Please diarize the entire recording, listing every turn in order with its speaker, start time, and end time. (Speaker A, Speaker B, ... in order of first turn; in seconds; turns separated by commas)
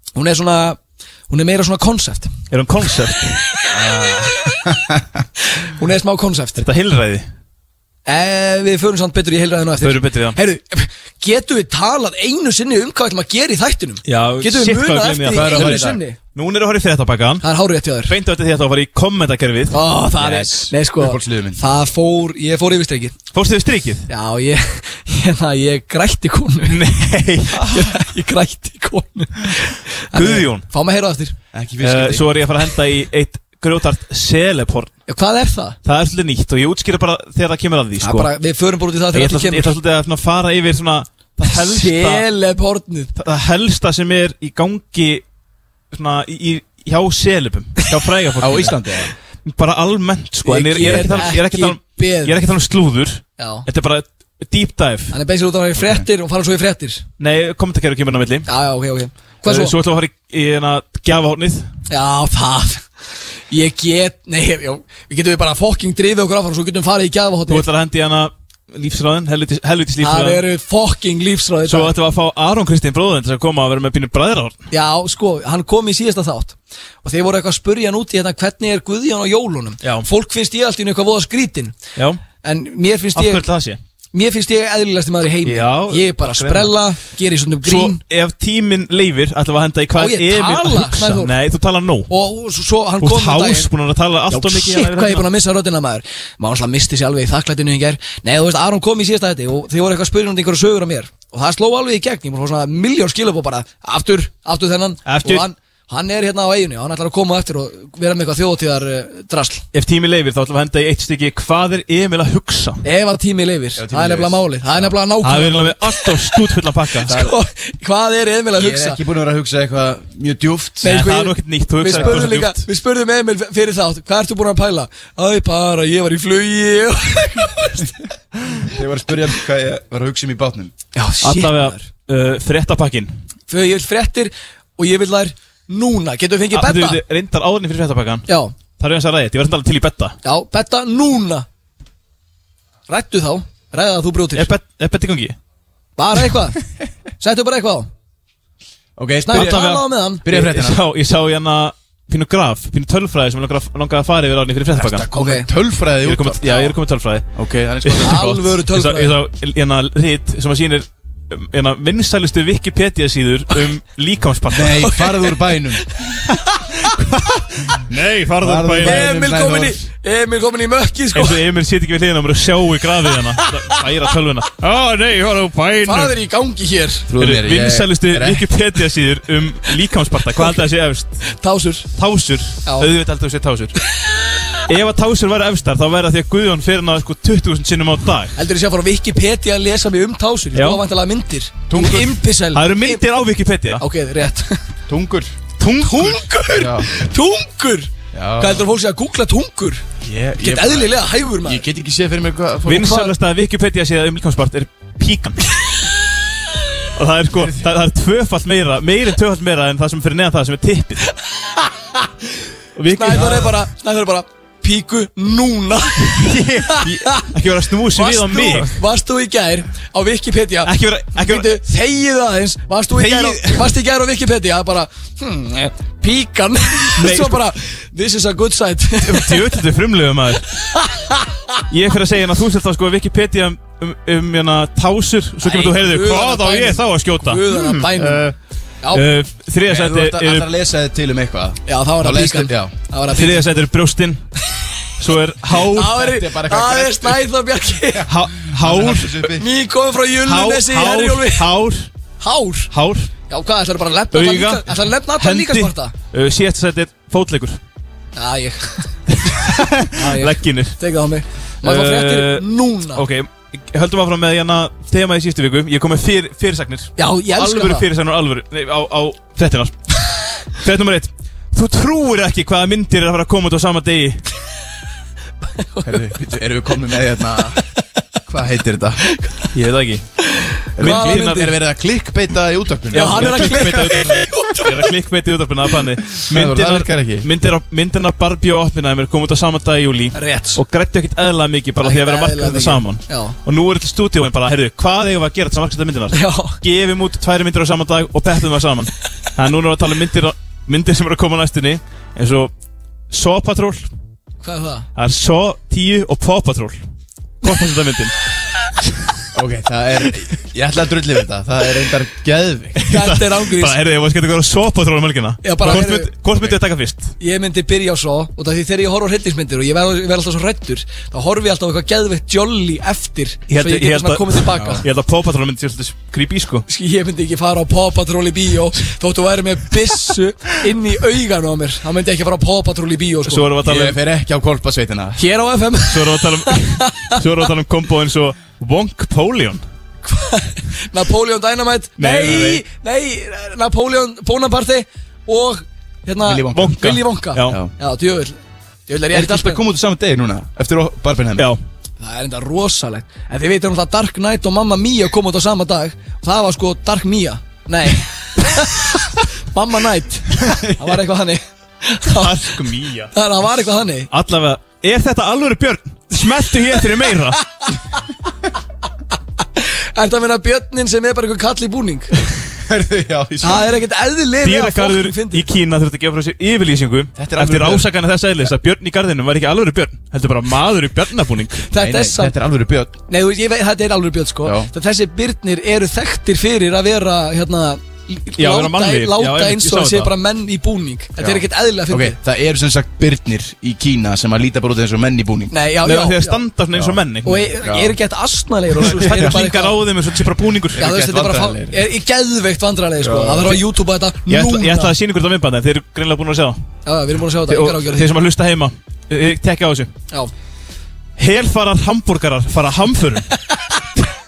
Speaker A: 0.1-2.3, Speaker B: 2.5-3.4, Speaker C: 3.7-5.2, Speaker A: 5.6-6.6, Speaker B: 6.6-7.2, Speaker A: 8.1-16.2, Speaker B: 9.8-10.4, Speaker B: 14.1-17.4, Speaker C: 15.3-16.0, Speaker A: 17.4-18.1, Speaker B: 18.1-19.8, Speaker A: 19.7-23.2, Speaker C: 20.2-21.6, Speaker B: 23.3-24.1, Speaker A: 24.1-26.8, Speaker B: 26.7-27.9, Speaker A: 27.6-31.4, Speaker B: 30.1-30.6, Speaker C: 31.5-32.4, Speaker B: 31.8-34.9, Speaker A: 35.1-35.8, Speaker B: 35.9-38.3, Speaker A: 38.0-39.8, Speaker B: 39.1-42.2, Speaker A: 41.5-43.1, Speaker B: 43.2-45.2, Speaker B: 45.9-48.8, Speaker C: 48.4-49.1, Speaker B: 49.5-55.1, Speaker A: 50.5-52.4, Speaker C: 50.8-51.3, Speaker A: 53.4-53.6, Speaker A: 55.1-57.0, Speaker C: 55.8-56.1, Speaker B: 57.2-58.5, Speaker A: 58.5-59.7, Speaker B: 59.5-61.7, Speaker A: 61.9-62.9, Speaker A: 63.5-67.6, Speaker B: 67.5-70.4, Speaker A: 70.0-72.0, Speaker B: 71.6-74.6, Speaker A: 74.7-81.8, Speaker B: 79.8-80.1, Speaker A: 82.4-83.5, Speaker B: 83.1-83.8, Speaker A: 84.1-88.0, Speaker B: 85.5-86.7, Speaker B: 87.6-92.1, Speaker A: 90.0-91.3, Speaker A: 92.1-93.7, Speaker B: 93.0-95.3, Speaker A: 94.3-109.6, Speaker B: 105.1-105.5, Speaker B: 109.7-112.8, Speaker A: 112.8-116.4, Speaker C: 113.8-115.0, Speaker B: 115.2-117.2, Speaker A: 117.0-119.0, Speaker C: 118.5-121.0, Speaker A: 120.8-127.9, Speaker B: 120.8-122.6, Speaker C: 121.9-122.3, Speaker C: 128.6-130.7, Speaker A: 130.9-131.8, Speaker B: 131.2-133.1, Speaker A: 133.5-137.0, Speaker B: 136.5-138.3, Speaker B: 138.8-140.1, Speaker A: 140.2-141.5, Speaker A: 142.9-144.5, Speaker B: 144.3-145.4, Speaker A: 146.0-146.6, Speaker A: 147.2-147.9, Speaker C: 149.0-149.6, Speaker A: 149.2-150.2, Speaker B: 149.3-155.1, Speaker C: 150.2-150.8, Speaker C: 154.7-156.7, Speaker A: 155.1-155.5, Speaker B: 156.0-157.2, Speaker C: 157.3-158.6, Speaker B: 157.8-164.9, Speaker A: 158.0-159.1, Speaker C: 164.5-165.9, Speaker A: 164.8-165.4, Speaker B: 167.7-169.1, Speaker C: 168.4-169.8, Speaker A: 168.8-171.4, Speaker B: 171.1-176.1, Speaker A: 173.4-173.8, Speaker A: 175.8-177.1, Speaker C: 177.1-178.5, Speaker B: 177.2-181.2, Speaker A: 181.3-181.9, Speaker B: 182.0-183.8, Speaker B: 184.7-188.3, Speaker A: 188.4-193.0, Speaker B: 190.6-190.8, Speaker C: 191.7-192.1, Speaker B: 192.5-193.8, Speaker A: 193.8-194.6, Speaker C: 194.9-195.3, Speaker B: 195.6-196.3, Speaker A: 195.8-199.8, Speaker C: 196.5-196.9, Speaker C: 198.1-198.7, Speaker C: 200.0-203.0, Speaker A: 200.4-201.6, Speaker B: 202.7-205.4, Speaker A: 202.7-203.1, Speaker B: 206.9-211.1, Speaker B: 212.8-213.6, Speaker A: 212.9-217.3, Speaker B: 216.1-218.8, Speaker A: 217.9-229.4, Speaker B: 220.6-221.6, Speaker B: 222.9-223.8, Speaker B: 227.0-227.4, Speaker B: 229.0-230.5, Speaker A: 230.7-231.6, Speaker B: 231.7-238.3, Speaker A: 235.4-238.2, Speaker B: 238.9-240.5, Speaker C: 239.7-242.7, Speaker A: 241.7-243.5, Speaker B: 243.1-244.2, Speaker B: 245.0-246.1, Speaker A: 245.7-248.1, Speaker C: 245.8-247.2, Speaker C: 248.0-249.5, Speaker B: 248.1-249.3, Speaker A: 249.4-251.5, Speaker B: 250.2-251.9, Speaker A: 252.2-252.7, Speaker B: 252.7-253.1, Speaker A: 253.3-255.9, Speaker B: 254.1-257.6, Speaker A: 258.2-258.9, Speaker B: 259.2-260.8, Speaker A: 259.9-263.0, Speaker B: 261.6-274.2, Speaker A: 267.0-267.9, Speaker A: 275.6-275.9, Speaker C: 275.8-277.6, Speaker C: 278.3-279.1, Speaker A: 279.1-279.5, Speaker B: 279.5-280.0, Speaker A: 280.2-281.5, Speaker C: 280.8-283.9, Speaker B: 280.8-281.5, Speaker A: 282.9-284.9, Speaker B: 282.9-302.5, Speaker C: 286.3-287.3, Speaker A: 290.1-290.6, Speaker A: 291.8-293.4, Speaker A: 296.1-296.6, Speaker B: 303.1-303.9, Speaker A: 304.4-304.9, Speaker B: 305.0-306.8, Speaker B: 307.4-308.1, Speaker C: 309.3-312.9, Speaker B: 312.8-317.1, Speaker A: 312.9-313.8, Speaker A: 315.4-316.1, Speaker A: 317.2-324.8, Speaker B: 323.5-326.6, Speaker C: 324.5-324.8, Speaker A: 326.7-333.5, Speaker B: 333.2-334.0, Speaker C: 333.6-335.2, Speaker A: 335.2-337.2, Speaker B: 335.9-339.6, Speaker A: 340.1-348.4, Speaker B: 342.0-342.6, Speaker C: 346.2-346.8, Speaker B: 346.5-347.6, Speaker C: 347.5-347.7, Speaker A: 348.9-349.6, Speaker C: 349.1-351.5, Speaker A: 352.0-362.6, Speaker C: 360.4-360.8, Speaker B: 362.1-363.1, Speaker A: 363.1-364.1, Speaker B: 364.1-367.4, Speaker A: 369.6-372.1, Speaker C: 372.6-373.7, Speaker A: 373.4-375.4, Speaker B: 374.4-381.6, Speaker C: 377.2-377.9, Speaker A: 381.7-382.3, Speaker C: 381.8-383.0, Speaker A: 383.1-392.2, Speaker C: 384.4-384.7, Speaker B: 388.4-390.1, Speaker C: 391.2-395.5, Speaker A: 395.5-396.4, Speaker B: 395.8-397.5, Speaker C: 396.7-397.0, Speaker A: 397.2-399.8, Speaker C: 397.6-397.9, Speaker B: 398.8-400.9, Speaker C: 398.8-399.4, Speaker C: 400.7-401.9, Speaker A: 400.8-404.9, Speaker C: 403.0-403.6, Speaker B: 404.3-406.6, Speaker A: 406.9-408.1, Speaker B: 407.5-409.9, Speaker B: 411.2-413.3, Speaker A: 413.5-413.8